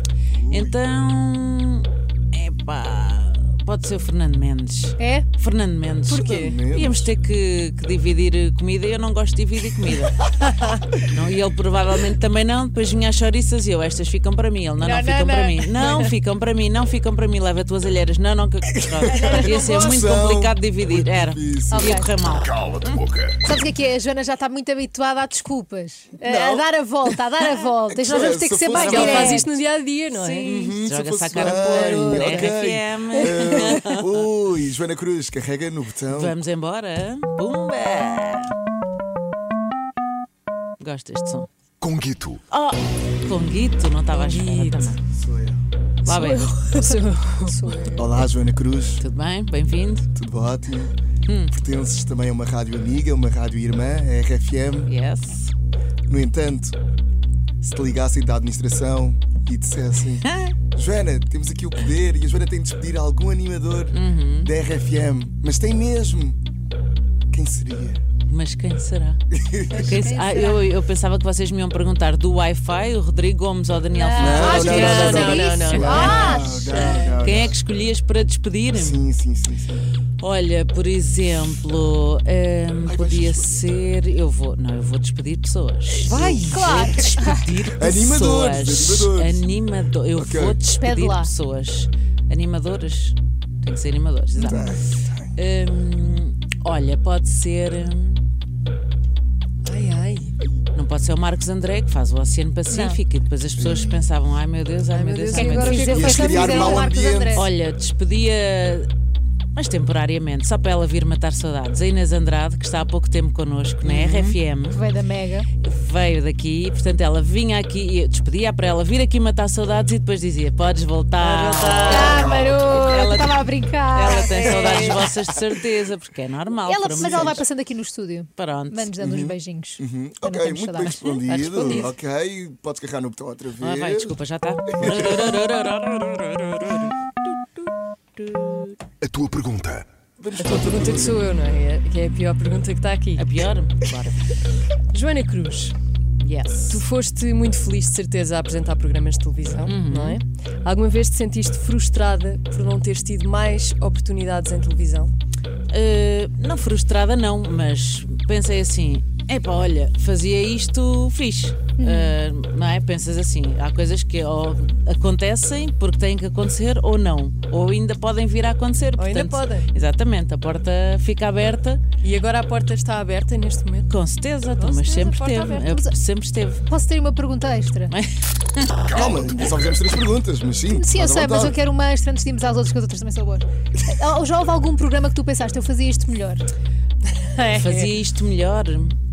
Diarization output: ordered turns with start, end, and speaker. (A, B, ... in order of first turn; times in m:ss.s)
0:00.3-0:00.8 A
0:00.5-0:10.2 B
0:05.0-0:05.3 C
0:06.1-0:06.6 D
0:06.1-0:07.1 A
0:11.0-0:23.0 B
0:14.8-0:15.7 C
0:19.0-0:22.0 A
0:19.1-0:19.9 C
0:21.7-0:22.1 C
0:22.5-0:23.0 E
0:23.4-0:29.5 C
0:26.2-0:26.6 A
0:27.9-0:29.6 A
0:28.7-0:30.6 D
0:30.1-0:34.3 B
0:30.4-0:36.3 A
0:31.4-0:32.5 D
0:36.1-0:38.5 B
0:40.8-0:41.5 B
0:41.8-0:42.4 E
0:42.5-0:45.0 B
0:44.1-0:44.9 D
0:45.1-0:45.6 A
0:46.0-0:46.6 B
0:46.0-0:48.0 D
0:46.7-0:48.2 C
0:47.9-0:49.0 A
0:49.0-0:50.1 B
0:50.1-0:50.9 A
0:51.3-0:51.5 B
0:51.5-0:54.9 A
0:54.9-0:55.5 B
0:56.1-0:56.8 A
0:57.6-1:06.4 A
1:00.2-1:00.5 B
1:03.9-1:04.5 B
1:07.3-1:08.0 A
1:08.3-1:09.2 B
1:09.3-1:10.0 A
1:09.7-1:10.6 C
1:09.7-1:19.0 B
1:13.9-1:17.3 C
1:14.2-1:17.6 A
1:14.3-1:16.7 D
1:18.7-1:19.8 A
1:20.2-1:34.8 B
1:22.8-1:23.6 A
1:26.0-1:26.8 D
1:26.0-1:29.6 A
1:26.5-1:27.4 C
1:30.1-1:30.6 A
1:30.8-1:31.3 C
1:34.4-1:35.3 A
1:35.4-1:38.2 B
1:39.6-1:40.3 D
1:40.7-1:48.9 B
1:42.7-1:43.0 C
1:43.6-1:44.1 A
1:44.9-1:46.7 D
1:45.3-1:47.5 C
1:45.8-1:47.5 A
1:49.6-1:54.8 B
1:53.8-1:54.3 D
1:54.7-1:55.5 C
1:55.6-2:07.4 B
2:01.2-2:02.4 D
2:01.9-2:05.0 C
2:01.9-2:02.6 A
2:04.6-2:05.2 A
2:06.6-2:11.2 C
2:07.0-2:07.4 A
2:08.4-2:08.9 B
2:09.0-2:14.2 A
2:11.3-2:11.9 D
2:13.6-2:16.9 B
2:14.8-2:15.4 A
2:18.2-2:18.8 B
2:19.0-2:19.9 E
2:20.2-2:21.3 A
2:20.4-2:23.4 D
2:23.2-2:24.2 B
2:24.9-2:25.8 D
2:26.2-2:26.8 B
2:26.7-2:35.1 D
2:29.6-2:30.2 B
2:35.7-2:51.8 B
2:41.8-2:42.2 C
2:49.0-2:49.7 D
2:52.0-2:53.9 D
2:53.9-2:56.6 B
2:54.6-2:55.8 D
2:56.7-2:57.9 C
2:57.9-2:58.8 B
2:58.9-3:01.6 A
2:58.9-2:59.3 E
3:00.7-3:06.4 C
3:07.1-3:07.9 D
3:07.5-3:09.0 B